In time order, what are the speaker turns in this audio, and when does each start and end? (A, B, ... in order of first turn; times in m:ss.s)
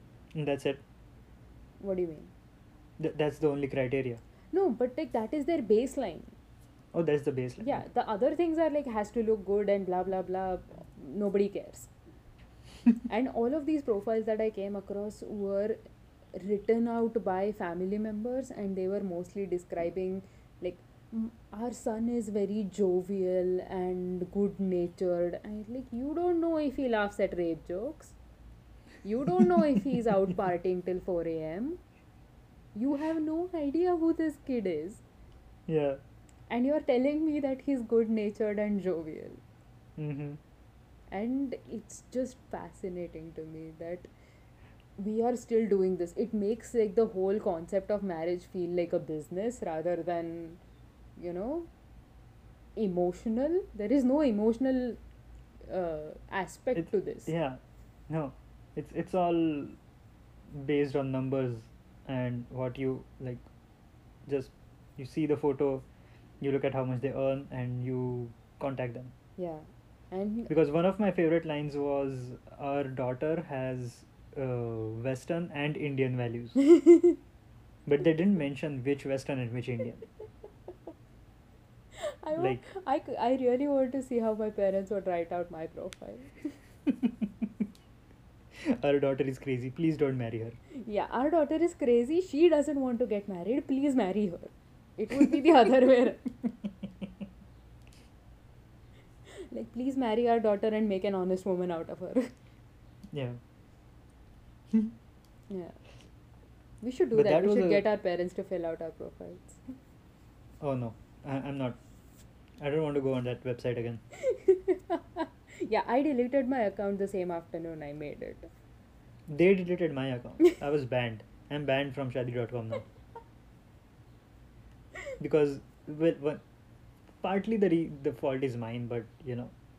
0:00.3-0:00.8 A
0:01.8-0:02.3 B
0:03.0-0:04.2 A
0:04.5-0:06.3 B
0:06.9-0:07.8 A
0:07.6-0:11.9 B
0:13.1-0:15.8 B
0:16.4-0:28.2 B
0:29.0-0:31.8 B
0:29.5-0:30.0 A
0:32.7-0:35.0 B
0:35.7-0:36.0 A
0:36.5-0:39.4 B
0:40.0-0:40.4 A
0:41.1-0:44.1 B
0:45.0-0:50.6 B
0:51.2-0:51.7 B
0:52.8-0:55.0 B
0:55.7-0:57.3 B
0:56.7-0:59.8 A
1:00.5-1:03.4 A
1:04.2-1:05.8 A
1:06.4-1:09.1 A
1:09.4-1:10.5 B
1:10.5-1:16.6 A
1:16.7-1:17.2 B
1:17.8-1:20.0 A
1:22.2-1:26.4 B
1:22.4-1:22.6 A
1:27.0-1:27.3 A
1:28.6-1:30.6 A
1:30.8-1:36.2 B
1:39.3-1:42.3 B
1:43.1-1:43.4 A
1:45.5-1:45.8 B
1:46.8-1:49.6 B
1:47.1-1:47.8 A
1:50.6-1:51.8 A
1:52.6-1:54.0 A
1:54.2-1:58.5 B
1:59.3-2:02.8 A
2:05.2-2:06.4 A
2:07.2-2:09.5 A